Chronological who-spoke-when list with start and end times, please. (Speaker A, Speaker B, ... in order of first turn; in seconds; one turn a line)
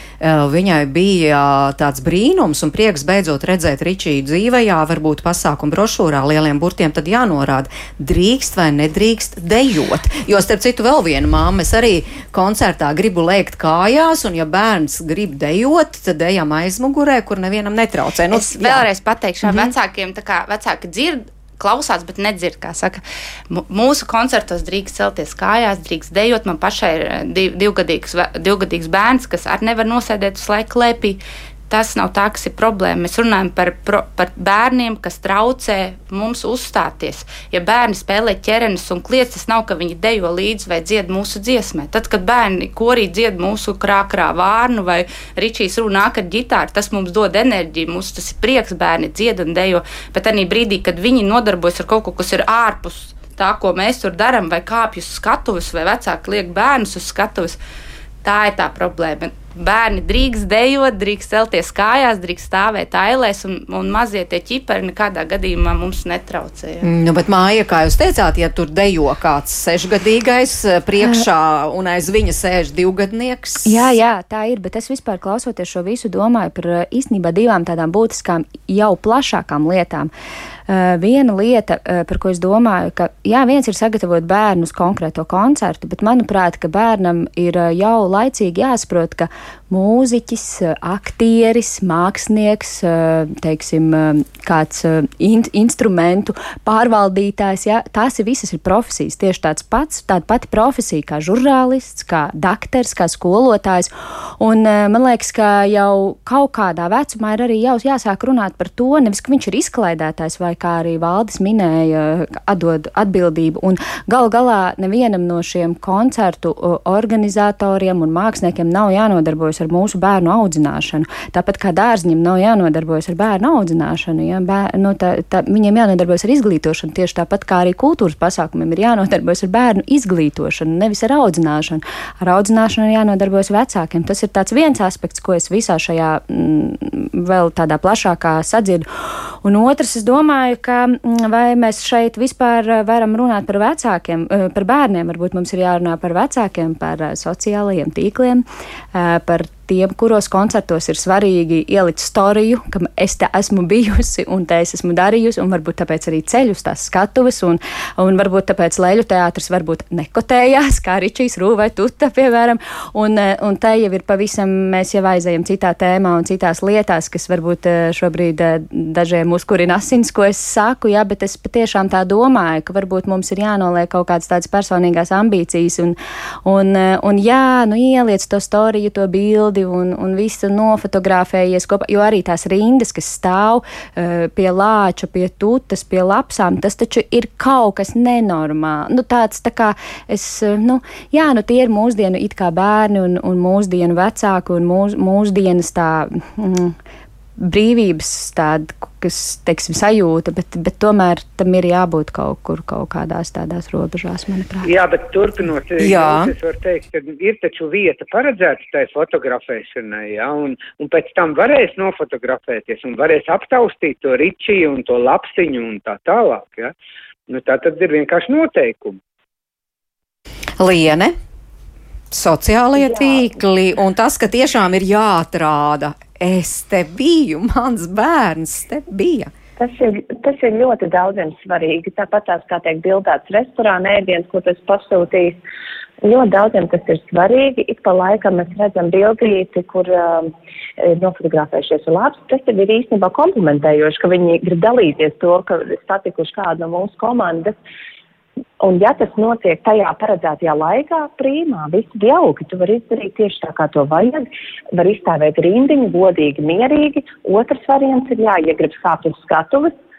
Speaker A: 0.2-18.9
Speaker B: 18.3-57.6
Speaker A: 19.4-19.7
Speaker B: 58.2-66.9
Speaker A: 66.8-73.9
Speaker C: 73.7-80.1
Speaker C: 80.7-138.9
Speaker C: 139.4-196.8
Speaker C: 197.4-204.7
Speaker D: 204.6-216.7
Speaker A: 205.8-206.3
Speaker D: 217.3-219.0
Speaker A: 220.6-221.1
Speaker A: 222.1-229.3
Speaker E: 223.0-223.3
Speaker E: 229.6-235.4
Speaker E: 236.0-247.5
Speaker E: 248.6-259.7